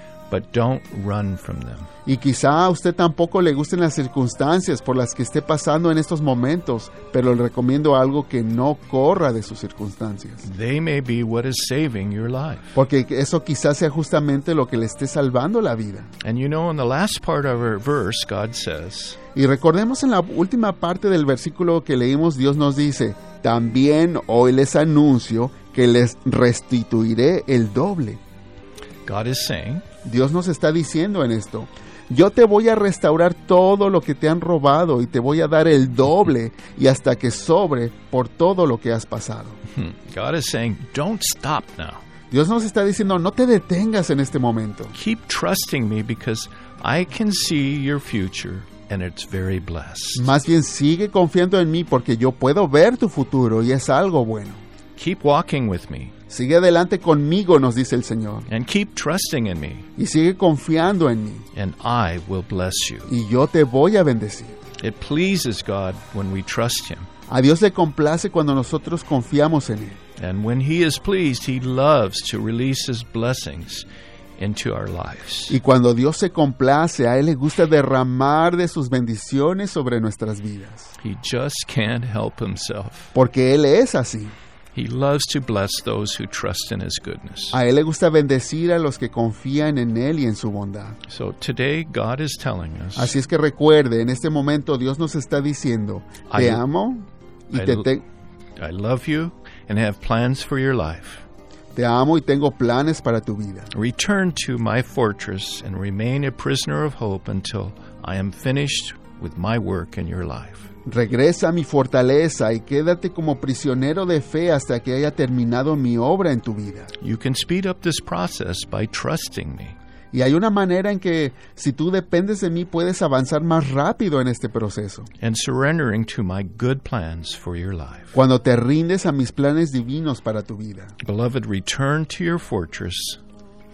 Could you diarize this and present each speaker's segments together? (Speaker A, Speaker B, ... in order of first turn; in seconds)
Speaker A: 0.3-1.9, 10.4-12.7, 16.2-19.2, 29.1-29.8, 39.7-42.0, 44.9-50.3, 55.0-56.1, 58.5-59.9, 61.5-63.1, 64.8-67.1, 70.2-73.8, 74.4-75.6, 81.0-83.1, 84.7-87.6, 91.1-93.1, 96.3-96.6, 97.5-97.9, 98.6-101.2, 103.7-110.7, 117.0-119.7, 125.2-128.2, 131.0-133.2
Speaker B: 2.0-10.4, 12.7-16.1, 19.3-28.2, 30.0-39.6, 42.3-44.9, 50.1-54.6, 56.3-58.5, 60.0-61.5, 63.1-64.6, 67.3-70.0, 75.5-80.9, 83.1-84.3, 87.5-91.0, 93.0-98.0, 101.7-103.7, 110.8-116.9, 120.1-125.1, 128.1-130.9